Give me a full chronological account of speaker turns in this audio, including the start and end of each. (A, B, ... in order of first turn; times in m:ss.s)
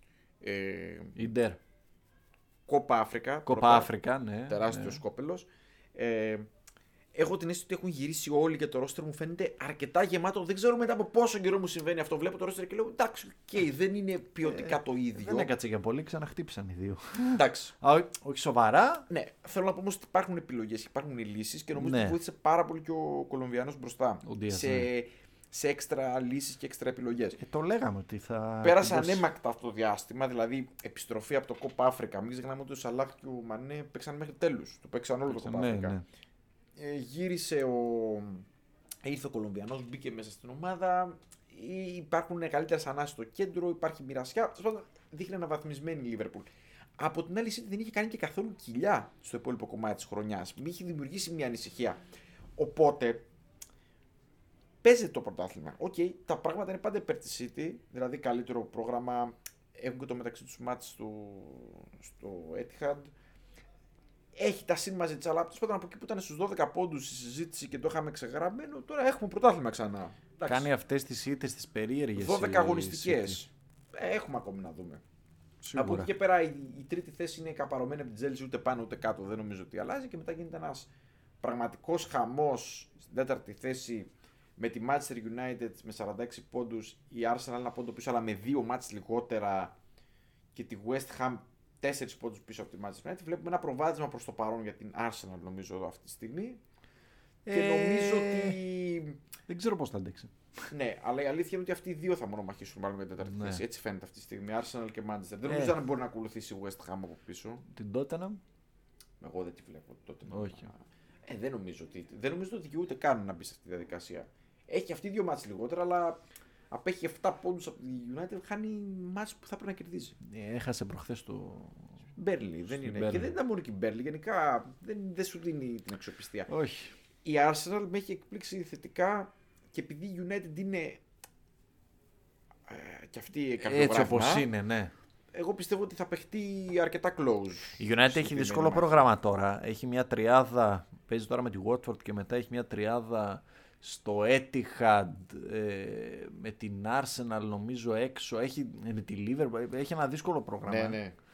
0:00.4-0:01.2 A
0:01.2-0:01.6 B
0:02.7-0:03.9 A
0:03.4-0:05.0 B
0:04.5-0:06.5 A
0:07.1-0:15.5 A
0:14.4-0:19.1 B
0:17.3-0:17.8 A
0:19.1-0:27.4 A
0:21.8-0:22.2 B
0:24.2-0:24.9 B
0:27.4-0:29.2 B
0:28.6-0:36.0 A
0:35.3-0:36.0 B
0:36.8-0:38.5 A
0:39.0-0:52.0 A
0:52.6-0:53.3 A
0:54.8-1:03.1 A
1:04.4-1:10.7 A
1:10.5-1:13.4 B
1:12.2-1:15.0 A
1:15.6-1:16.1 B
1:15.8-1:20.9 A
1:21.4-1:29.8 A
1:30.5-1:36.6 A
1:37.4-1:38.6 B
1:37.5-1:39.2 A
1:39.5-1:40.3 B
1:40.7-1:47.6 A
1:43.2-1:43.6 B
1:45.5-1:45.8 B
1:47.7-1:48.4 B
1:49.2-1:56.2 A
1:50.3-1:50.7 B
1:56.7-2:00.2 A
2:00.2-2:01.9 B
2:02.2-2:06.5 A
2:02.7-2:03.3 B
2:06.5-2:06.9 B
2:07.2-2:11.0 A
2:12.7-2:14.5 A
2:13.6-2:14.9 B
2:15.3-2:19.1 A
2:17.8-2:31.0 B
2:30.7-2:31.2 A